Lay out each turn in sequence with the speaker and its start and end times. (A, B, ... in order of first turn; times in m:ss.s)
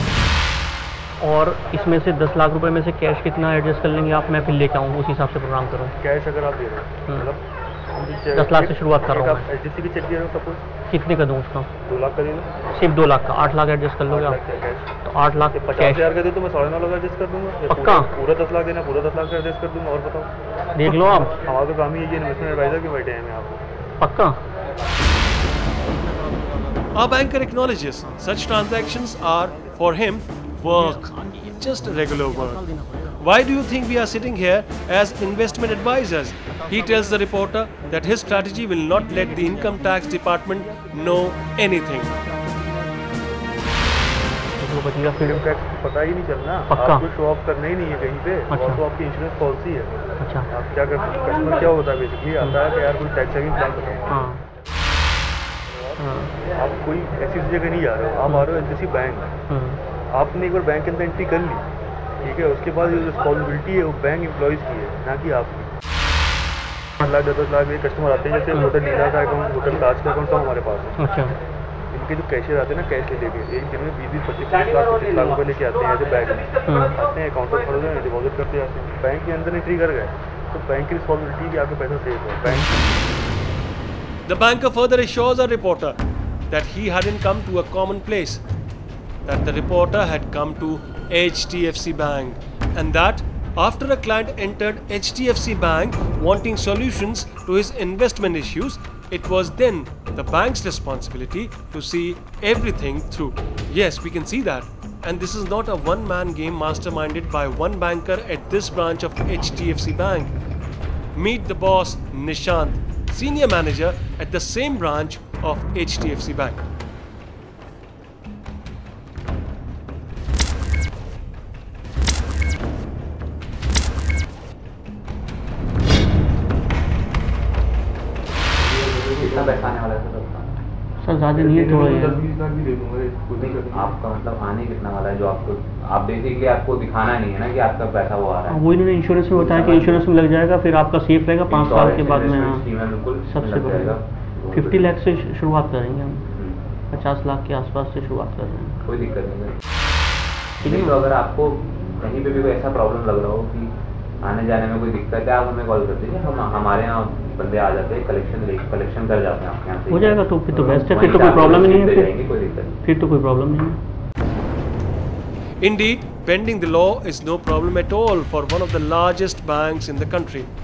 0:01.2-0:05.9 A
0:06.0-0:10.6 B
0:08.3-0:09.4 A
0:10.9-0:11.7 A
0:11.8-0:12.6 B
0:12.7-0:14.4 A
0:14.0-0:14.9 B
0:15.0-0:16.1 A
0:15.5-0:20.3 B
0:17.7-0:18.1 A
0:20.8-0:21.3 A
0:20.8-0:23.6 B
0:24.0-0:24.4 A
0:26.9-0:32.6 C
0:33.2-0:42.1 C
0:44.6-0:45.4 A
0:45.1-0:54.1 B
0:46.7-0:47.0 A
0:48.5-0:48.8 A
0:50.2-0:50.5 A
0:54.1-0:54.4 A
0:56.0-0:56.3 A
0:56.5-0:59.3 B
0:59.5-0:59.8 A
1:00.1-1:01.6 B
1:02.2-1:05.7 B
1:07.0-1:11.0 B
1:11.0-1:11.4 A
1:11.9-1:22.6 B
1:16.6-1:17.0 A
1:22.4-1:22.7 A
1:24.2-1:26.0 C
1:26.5-1:28.4 C
1:29.2-1:50.3 C
1:51.1-1:56.6 C
2:08.6-2:10.5 D
2:09.2-2:09.8 B
2:11.0-2:12.2 A
2:11.3-2:14.0 B
2:13.4-2:18.6 D
2:18.5-2:22.6 A
2:19.4-2:20.0 D
2:21.5-2:25.0 D
2:23.2-2:24.0 A
2:24.5-2:26.3 A
2:26.3-2:26.6 D
2:26.9-2:28.8 A
2:28.8-2:29.6 D
2:30.6-2:42.8 D
2:30.6-2:31.0 A
2:39.9-2:42.1 A
2:42.8-2:43.8 A
2:45.6-2:50.5 C